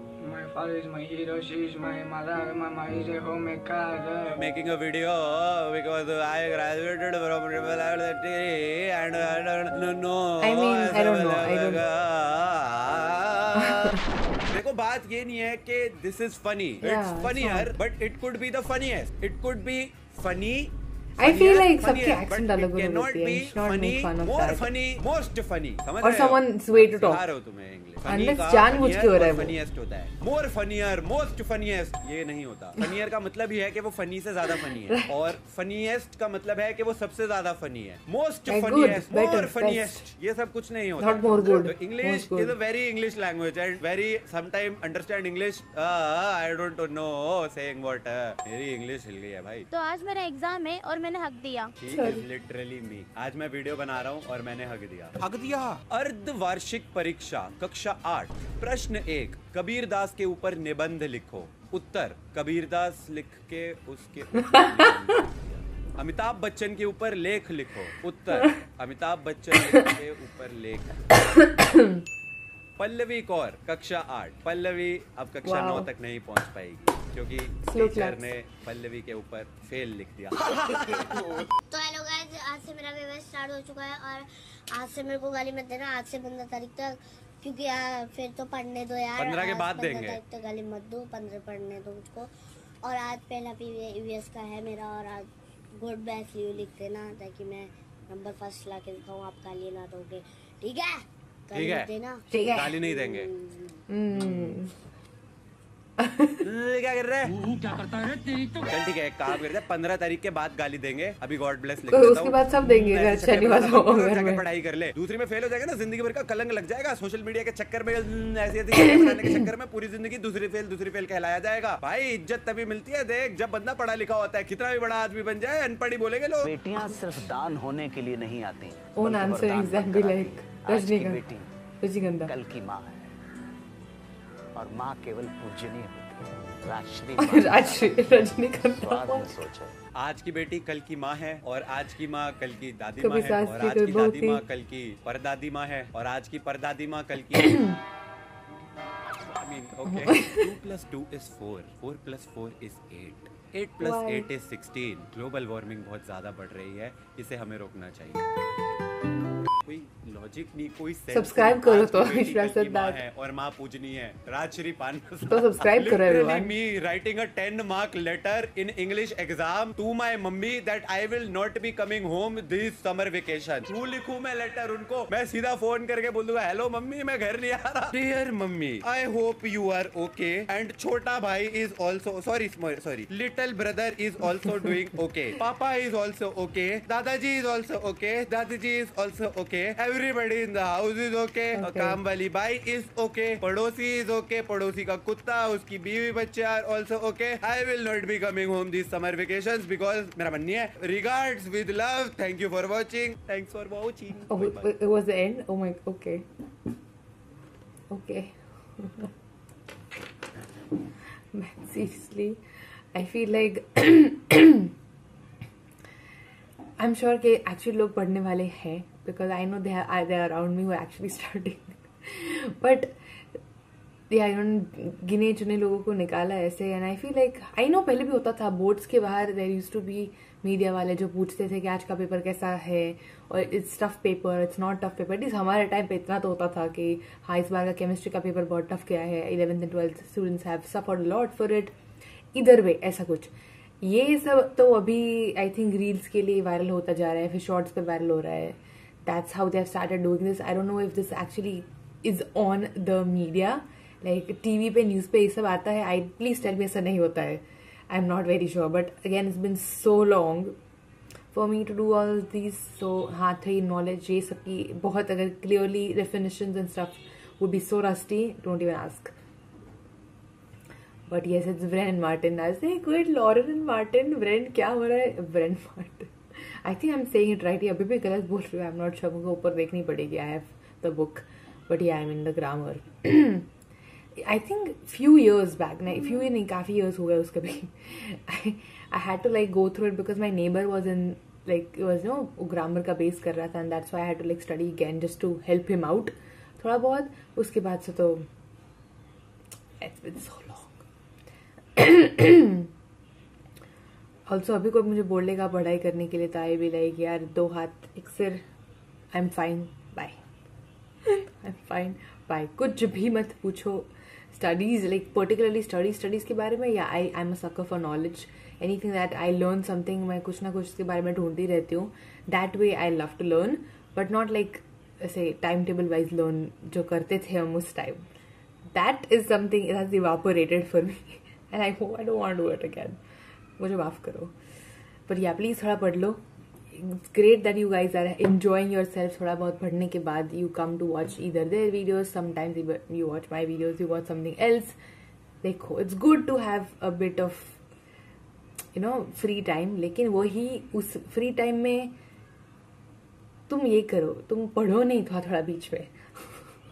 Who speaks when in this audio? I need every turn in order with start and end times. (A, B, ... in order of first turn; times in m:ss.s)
0:00.2-0:04.4 A
0:04.3-0:14.0 B
0:10.4-0:11.8 C
0:13.7-0:14.0 C
0:14.5-0:49.7 B
0:16.8-0:17.7 C
0:21.2-0:24.7 C
0:26.0-0:27.2 C
0:28.0-0:29.6 C
0:34.5-0:35.2 C
0:38.5-0:40.1 C
0:41.0-0:42.5 C
0:49.7-0:51.7 D
0:51.8-0:55.1 B
0:51.8-0:52.2 C
0:55.9-1:11.1 B
1:11.6-1:12.0 C
1:12.8-1:21.4 B
1:15.4-1:15.9 C
1:17.6-1:18.3 C
1:21.7-1:24.2 E
1:24.8-1:26.8 E
1:27.4-1:32.2 E
1:29.1-1:30.2 B
1:30.0-1:30.5 D
1:32.8-1:35.2 E
1:35.8-1:40.9 E
1:41.5-1:42.2 E
1:41.5-1:41.9 B
1:42.3-1:42.8 C
1:42.5-1:43.3 B
1:42.8-1:43.2 E
1:43.9-1:44.7 C
1:46.0-1:46.4 C
1:46.4-1:47.4 B
1:48.6-2:06.5 B
1:51.9-1:54.4 C
1:58.8-1:59.4 C
2:06.4-2:11.5 F
2:09.0-2:11.2 C
2:11.8-2:12.3 C
2:12.2-2:13.1 F
2:14.6-2:19.8 F
2:17.2-2:19.4 C
2:20.0-2:27.7 B
2:23.0-2:24.4 C
2:29.2-2:38.3 B
2:29.9-2:30.4 C
2:33.8-2:34.3 C
2:39.6-3:24.7 B
2:41.1-2:43.0 C
2:45.3-2:46.5 C
3:11.5-3:12.0 C
3:24.3-3:26.2 C
3:27.9-3:29.1 C
3:31.3-3:32.4 C
3:32.9-3:34.7 C
3:36.8-3:43.4 C
3:44.1-4:01.7 C
4:02.3-4:20.6 C
4:21.3-4:29.1 C
4:31.1-4:36.1 C
4:36.6-4:43.5 C
4:44.2-4:58.3 C
4:59.8-5:00.8 C
5:01.8-5:02.7 C
5:04.3-5:08.4 C
5:09.1-5:10.2 C
5:11.0-5:28.0 C
5:28.7-5:33.0 C
5:33.6-5:34.3 C
5:35.1-5:44.8 C
5:45.4-5:47.6 C
5:48.7-5:51.9 C
5:53.5-5:56.5 C